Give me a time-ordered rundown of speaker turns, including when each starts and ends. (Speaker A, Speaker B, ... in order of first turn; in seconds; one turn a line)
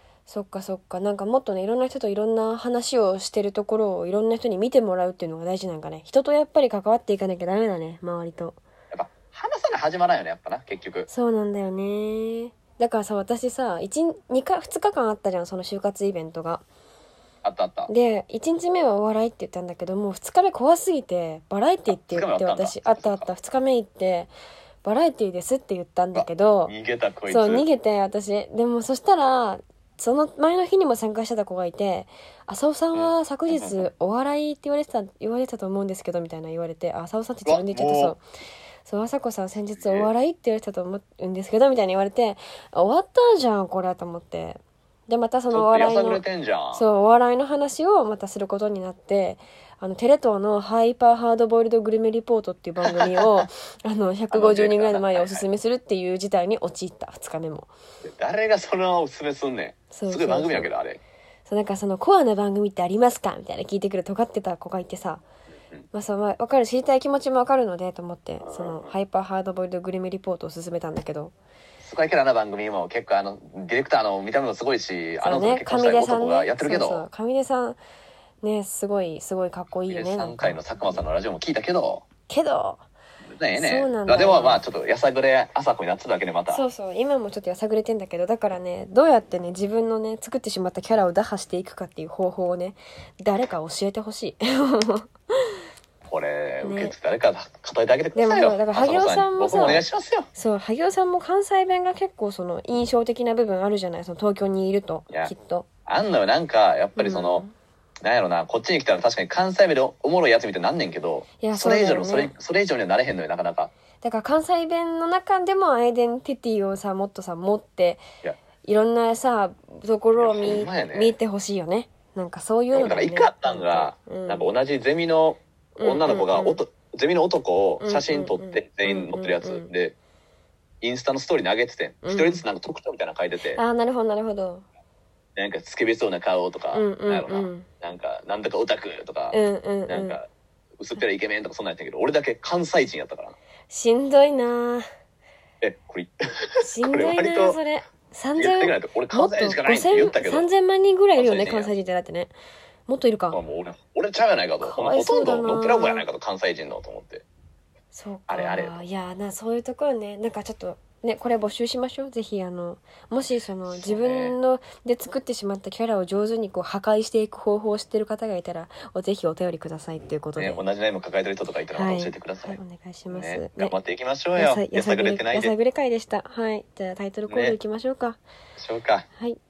Speaker A: 0.3-8.6
Speaker B: 8.9-11.1
Speaker A: 11.1-16.6
Speaker B: 17.4-17.9
Speaker A: 17.9-24.3
Speaker B: 21.9-23.3
Speaker A: 24.8-26.7
Speaker B: 26.1-27.6
Speaker A: 27.3-38.2
Speaker B: 32.9-33.9
Speaker B: 37.5-38.1
Speaker A: 38.8-57.7
Speaker B: 39.8-40.1
Speaker B: 45.5-46.8
Speaker B: 52.8-53.4
Speaker B: 54.3-55.5
Speaker B: 58.0-61.0
Speaker A: 59.9-60.7
Speaker A: 61.5-65.2
Speaker A: 65.9-71.3
Speaker B: 68.4-68.9
Speaker B: 71.8-77.1
Speaker A: 75.2-77.8
Speaker A: 78.4-81.0
Speaker B: 79.9-82.0
Speaker A: 82.3-82.8
Speaker B: 83.3-86.6
Speaker A: 83.5-84.6
Speaker A: 86.5-95.1
Speaker B: 96.1-100.3
Speaker A: 96.6-96.9
Speaker A: 98.1-105.7
Speaker B: 105.8-107.4
Speaker A: 107.0-107.5
Speaker B: 108.0-113.7
Speaker A: 111.4-112.3
Speaker A: 114.0-118.0
Speaker A: 118.6-124.5
Speaker B: 120.2-121.1
Speaker B: 122.7-129.9
Speaker A: 125.8-126.6
Speaker A: 127.8-129.7
Speaker B: 130.8-133.6
Speaker A: 132.0-132.4
Speaker A: 133.5-134.6
Speaker B: 135.3-140.3
Speaker A: 136.7-137.7
Speaker A: 139.3-140.2
Speaker B: 140.8-143.3
Speaker A: 143.7-144.8
Speaker B: 145.6-147.6
Speaker A: 146.6-152.3
Speaker B: 148.3-150.5
Speaker B: 151.2-151.7
Speaker A: 152.9-153.4
Speaker B: 153.3-157.2
Speaker A: 154.6-156.1
Speaker A: 157.9-170.6
Speaker B: 158.3-158.8
Speaker B: 163.7-164.3
Speaker B: 170.4-172.6
Speaker A: 171.7-173.8
Speaker B: 173.1-175.5
Speaker A: 174.3-178.2
Speaker B: 177.3-177.6
Speaker B: 178.6-179.1